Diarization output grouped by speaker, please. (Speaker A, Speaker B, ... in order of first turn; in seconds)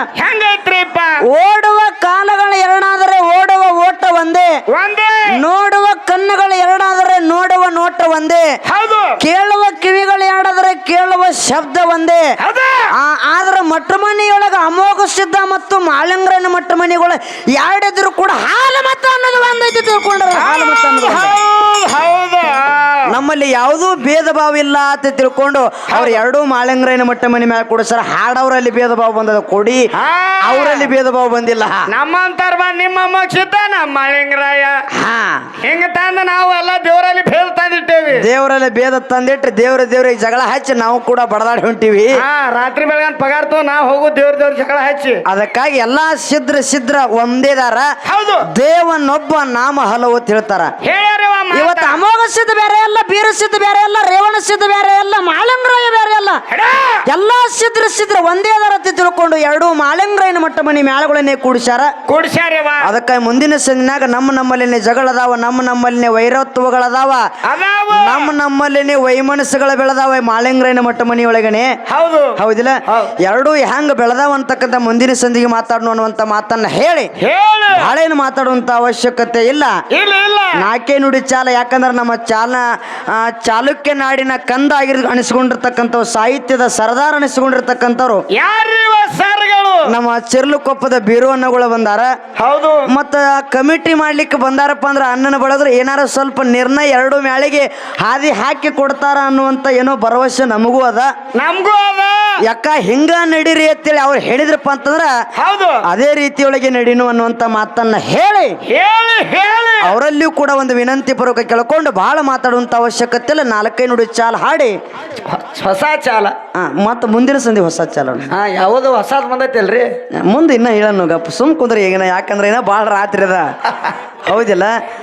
Speaker A: 0.2-1.2, 4.7-5.3, 8.7-9.2, 12.4-12.9, 20.3-23.1, 25.9-26.2, 29.9-30.9, 31.9-34.8, 35.6-38.2, 42.1-45.2, 48.0-48.5, 50.8-52.0, 56.5-57.0, 62.1-62.9, 67.4-68.3, 71.9-73.1, 77.2-77.9, 79.9-80.6, 88.3-89.9, 92.4-92.9, 101.3-102.3, 105.4-105.8, 108.7-109.9, 115.2-116.3, 118.3-119.9
Speaker B: 1.2-4.5, 5.3-8.4, 9.2-12.2, 12.9-21.4, 23.1-29.9, 30.4-31.9, 35.0-35.5, 38.1-42.2, 45.2-47.9, 48.5-50.7, 51.5-56.4, 57.1-61.9, 62.8-67.2, 67.9-71.7, 72.4-77.1, 77.7-79.7, 80.5-88.2, 89.9-92.1, 92.9-101.1, 102.4-105.1, 105.8-108.5, 109.8-114.7, 116.5-118.3, 120.1-123.5, 124.2-124.7